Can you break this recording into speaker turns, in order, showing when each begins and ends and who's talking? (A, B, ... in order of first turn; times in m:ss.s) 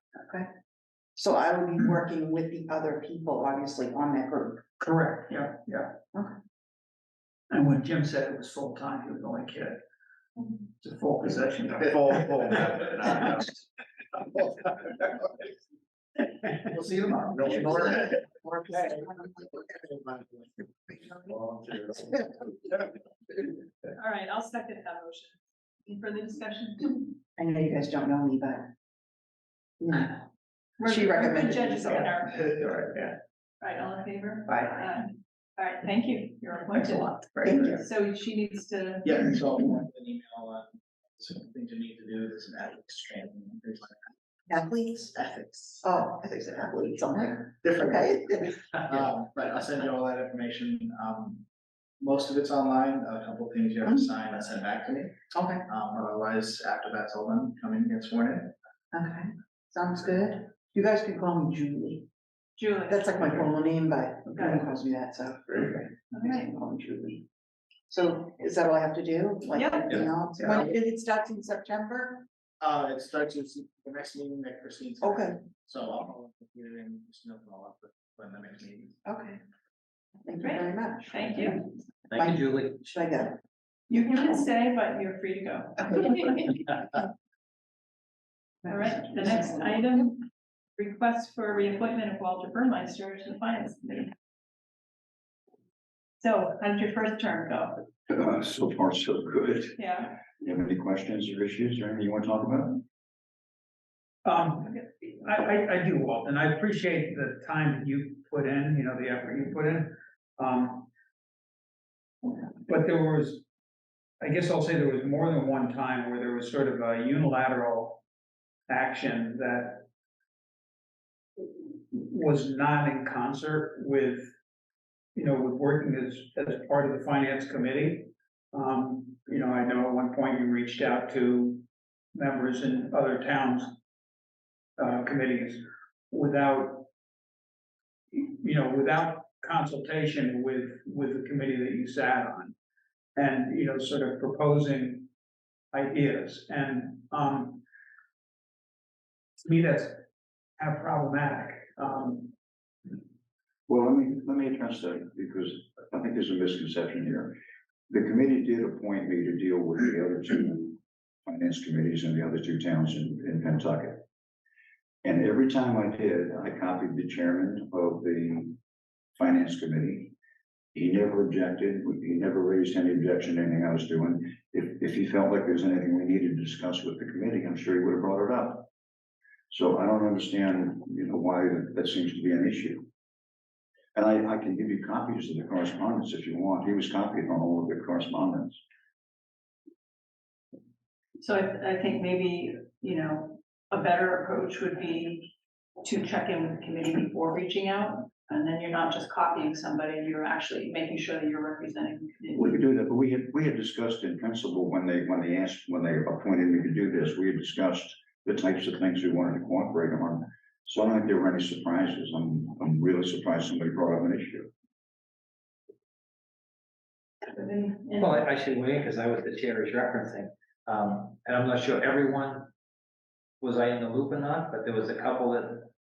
0:01.2-0:04.6 A
0:04.8-0:05.9 B
0:07.5-0:09.8 B
0:10.8-0:12.3 B
0:16.7-0:18.1 C
0:24.0-0:27.2 D
0:27.4-0:28.7 A
0:29.8-0:30.3 A
0:30.8-0:32.6 D
0:30.8-0:32.0 A
0:32.4-0:33.1 C
0:33.6-0:39.1 D
0:37.4-0:37.8 A
0:39.0-0:44.1 C
0:44.5-0:45.2 A
0:45.2-0:45.8 C
0:45.8-0:48.5 A
0:47.6-0:51.4 C
0:52.0-0:58.5 C
0:55.3-0:55.6 A
0:58.9-1:02.1 A
1:02.6-1:03.2 D
1:02.9-1:07.2 A
1:04.3-1:04.6 D
1:06.1-1:06.5 D
1:07.9-1:12.2 A
1:09.5-1:09.9 D
1:12.6-1:19.0 C
1:15.0-1:15.4 A
1:19.0-1:19.4 A
1:20.2-1:23.4 A
1:20.4-1:21.7 D
1:22.1-1:22.9 E
1:23.9-1:26.8 D
1:28.6-1:30.2 D
1:30.8-1:34.1 D
1:36.2-1:37.8 D
1:38.1-1:42.8 F
1:39.8-1:40.1 D
1:44.2-1:50.9 B
1:52.6-1:53.4 B
1:54.2-1:58.0 B
1:58.7-1:59.8 B
2:01.4-2:04.3 B
2:05.2-2:11.6 B
2:12.1-2:13.7 B
2:14.8-2:16.9 B
2:18.1-2:22.6 B
2:23.2-2:25.1 B
2:25.7-2:27.6 B
2:29.4-2:30.0 B
2:30.6-2:32.3 B
2:33.7-2:37.4 F
2:37.9-2:44.0 F
2:45.0-2:48.6 F
2:49.2-2:50.1 F
2:50.8-2:58.7 F
2:59.5-3:02.8 F
3:04.0-3:08.6 F
3:11.2-3:15.3 D
3:15.8-3:22.6 D
3:22.4-3:34.5 F
3:37.3-3:38.2 D
3:38.0-3:42.5 E
3:43.4-3:45.7 E